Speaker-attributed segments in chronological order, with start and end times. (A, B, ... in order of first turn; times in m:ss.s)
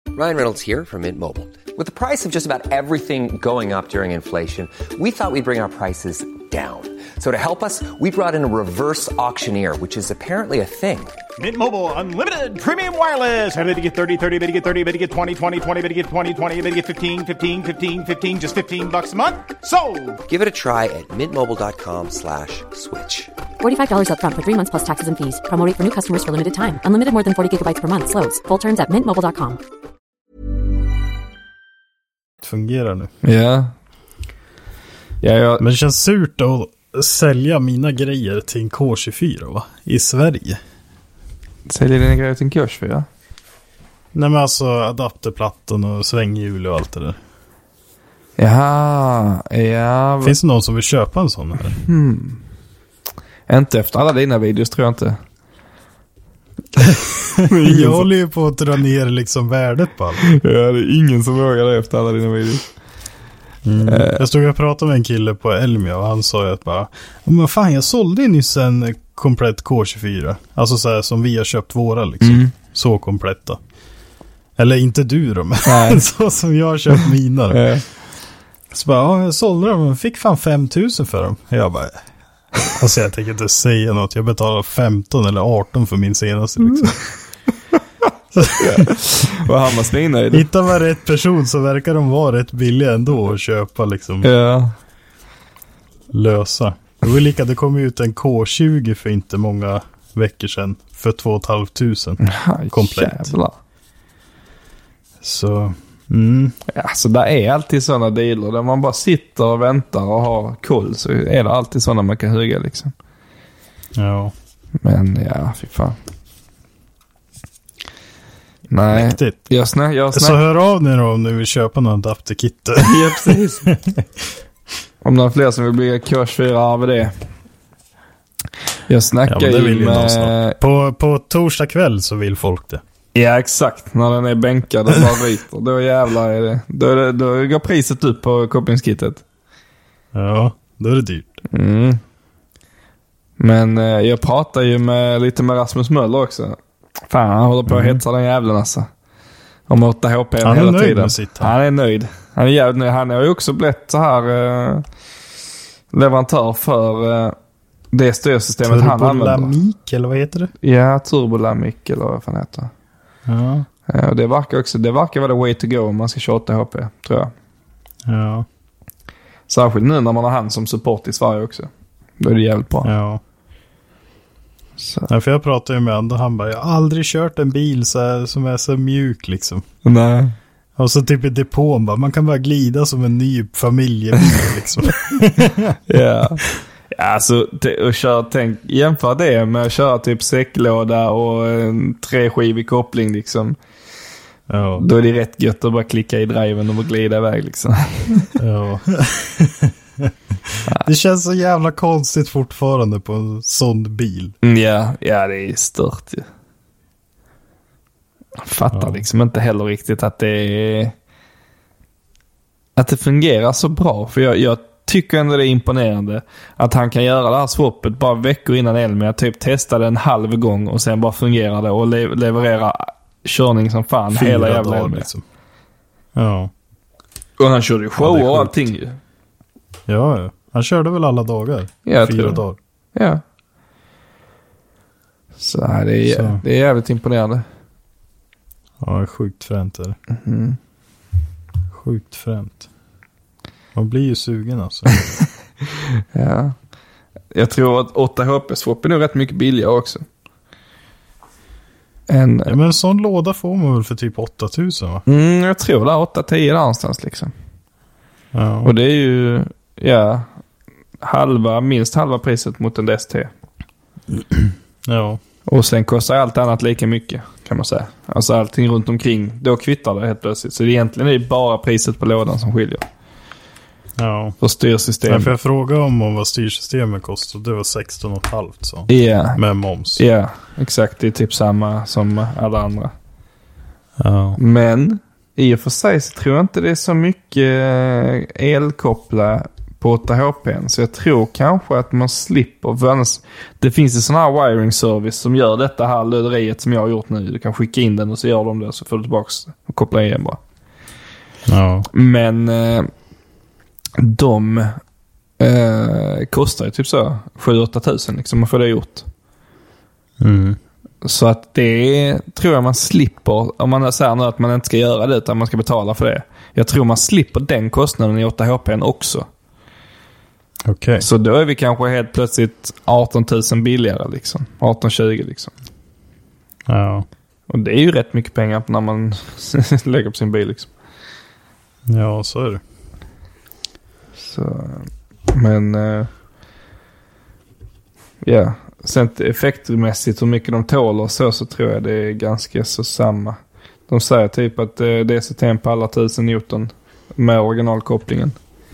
0:00.1-0:11.2 A
0:11.4-0:20.2 B
0:20.3-0:23.3 A
0:23.6-0:29.6 C
0:32.4-0:33.1 D
0:33.2-0:33.7 E
0:35.2-0:35.6 E
0:35.6-0:40.6 D
0:41.7-0:43.1 E
0:44.1-0:47.2 D
0:48.4-0:50.4 E
0:50.2-0:51.8 D
0:51.8-0:52.4 E
0:53.5-0:55.2 E
0:57.4-0:58.1 E
0:57.4-1:00.2 D
1:00.2-1:02.6 E
1:03.6-1:13.6 D
1:03.9-1:04.2 E
1:12.2-1:12.5 E
1:14.6-1:17.7 D
1:15.7-1:16.0 E
1:17.5-1:17.8 E
1:18.7-1:22.0 D
1:22.7-1:27.0 D
1:28.4-1:28.9 D
1:28.6-1:30.5 E
1:30.3-1:34.3 D
1:34.2-1:34.7 E
1:36.1-1:43.4 D
1:42.2-1:43.6 E
1:45.2-1:46.6 D
1:46.7-1:52.9 E
1:54.0-1:54.3 D
1:54.8-1:56.0 E
1:58.7-2:00.4 E
1:58.9-1:59.4 D
2:00.1-2:04.1 D
2:02.8-2:03.7 E
2:05.0-2:07.1 E
2:08.9-2:10.6 E
2:09.3-2:12.8 D
2:13.2-2:19.2 E
2:20.1-2:21.4 D
2:21.5-2:22.0 E
2:23.4-2:26.6 E
2:27.1-2:28.9 E
2:27.7-2:28.0 D
2:29.7-2:34.8 E
2:30.4-2:31.5 D
2:35.9-2:37.4 E
2:37.9-2:39.6 E
2:38.6-2:40.5 D
2:40.6-2:42.7 E
2:43.3-2:43.7 D
2:43.9-2:47.3 E
2:48.1-2:48.5 D
2:49.5-2:52.9 E
2:52.8-2:53.2 D
2:54.8-2:55.1 E
2:55.1-2:59.6 D
2:59.8-3:00.4 E
3:00.8-3:05.8 D
3:05.9-3:13.6 E
3:14.5-3:14.9 D
3:14.8-3:18.3 E
3:18.4-3:24.4 D
3:24.4-3:26.3 E
3:28.4-3:31.0 E
3:28.7-3:29.0 D
3:32.8-3:45.1 E
3:44.1-3:45.2 D
3:46.2-3:46.5 D
3:47.4-3:49.0 E
3:48.0-3:48.7 D
3:49.9-3:52.6 D
3:51.9-3:52.4 E
3:53.0-3:53.2 E
3:55.4-3:57.4 E
3:56.1-3:56.4 D
3:58.8-4:00.0 D
4:00.1-4:00.6 E
4:01.7-4:02.7 D
4:03.8-4:04.9 D
4:06.1-4:06.6 E
4:07.3-4:10.0 E
4:12.1-4:12.6 E
4:12.5-4:15.0 D
4:15.1-4:17.3 E
4:18.3-4:18.7 D
4:18.6-4:20.3 E
4:21.0-4:23.3 E
4:24.1-4:25.2 D
4:25.5-4:32.8 E
4:34.0-4:34.4 D
4:34.4-4:35.3 E
4:35.1-4:40.0 D
4:38.9-4:39.4 E
4:40.0-4:42.9 E
4:44.0-4:44.4 D
4:44.4-5:00.4 E
5:01.5-5:01.9 D
5:01.9-5:02.9 E
5:04.0-5:04.8 E
5:05.4-5:09.1 E
5:10.2-5:10.6 D
5:11.0-5:19.3 E
5:20.7-5:21.0 D
5:21.0-5:25.5 E
5:26.7-5:27.1 D
5:27.5-5:30.7 E
5:31.9-5:32.6 D
5:34.2-5:36.1 E
5:38.2-5:48.4 E